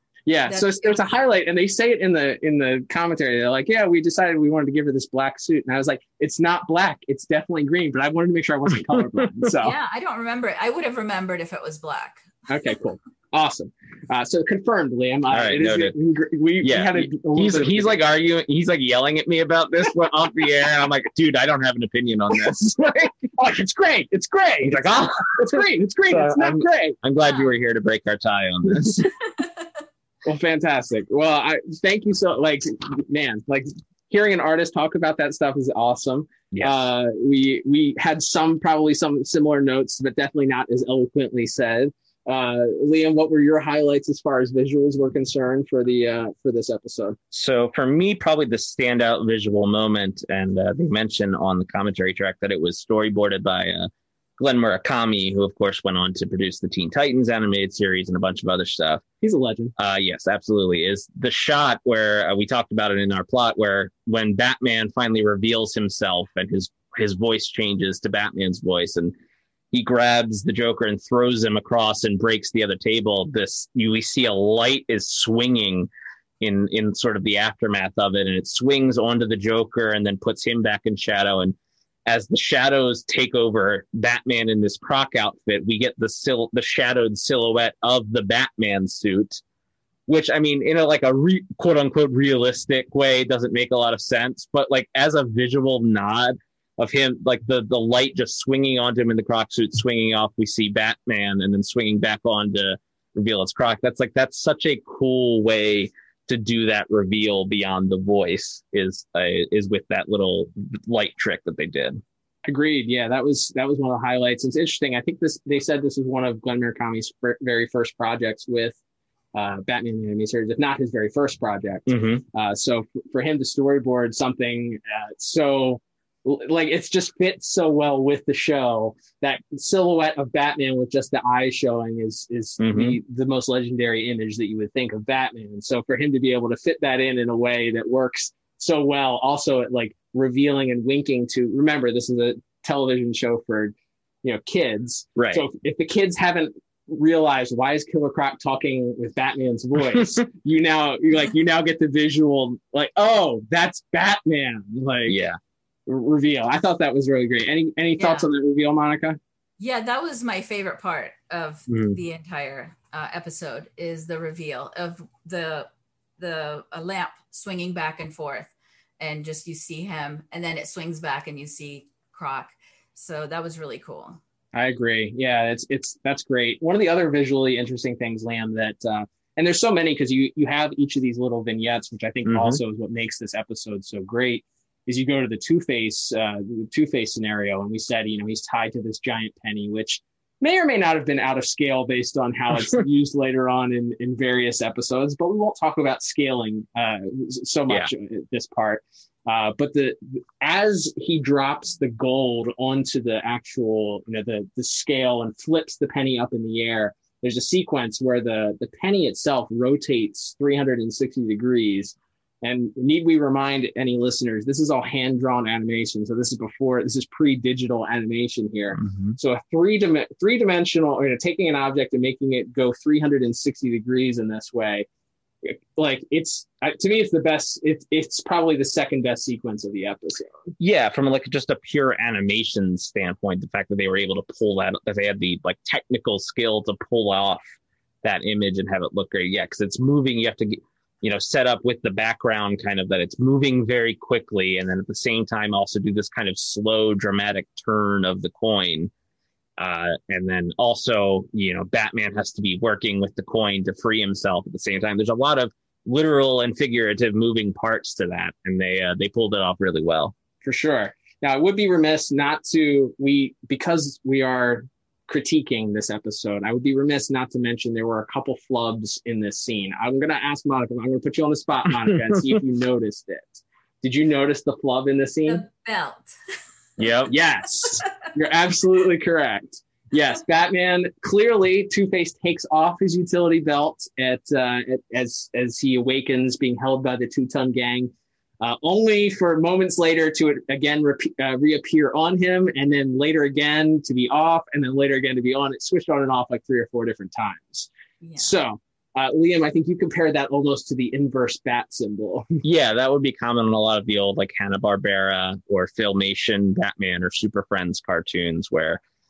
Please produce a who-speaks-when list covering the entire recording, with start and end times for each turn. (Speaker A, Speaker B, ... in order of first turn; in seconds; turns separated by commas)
Speaker A: 0.3-9.8, Speaker B: 0.5-1.0, Speaker B: 9.6-12.2, Speaker A: 12.5-18.0, Speaker C: 15.3-15.9, Speaker C: 16.6-23.3, Speaker A: 23.4-27.0, Speaker C: 24.6-29.1, Speaker B: 27.2-27.5, Speaker A: 30.2-47.2, Speaker C: 36.5-36.8, Speaker C: 47.3-59.0, Speaker A: 59.2-59.7, Speaker C: 59.8-69.2, Speaker C: 69.7-75.9, Speaker C: 76.4-89.4, Speaker C: 90.1-112.0, Speaker A: 112.5-118.8, Speaker A: 119.3-155.2, Speaker C: 121.9-122.2, Speaker C: 132.6-133.0, Speaker C: 145.2-145.4, Speaker C: 155.1-155.4, Speaker A: 155.9-159.2, Speaker B: 158.0-158.3, Speaker B: 159.6-174.2, Speaker C: 161.7-162.0, Speaker A: 174.5-224.9, Speaker C: 182.3-182.6, Speaker C: 218.8-219.2, Speaker A: 225.4-230.3, Speaker C: 230.6-237.4, Speaker C: 238.0-248.9, Speaker C: 249.6-260.1, Speaker A: 260.4-275.4, Speaker B: 275.3-276.1, Speaker C: 276.8-277.1, Speaker A: 277.1-302.3, Speaker B: 298.0-298.3, Speaker C: 302.4-308.8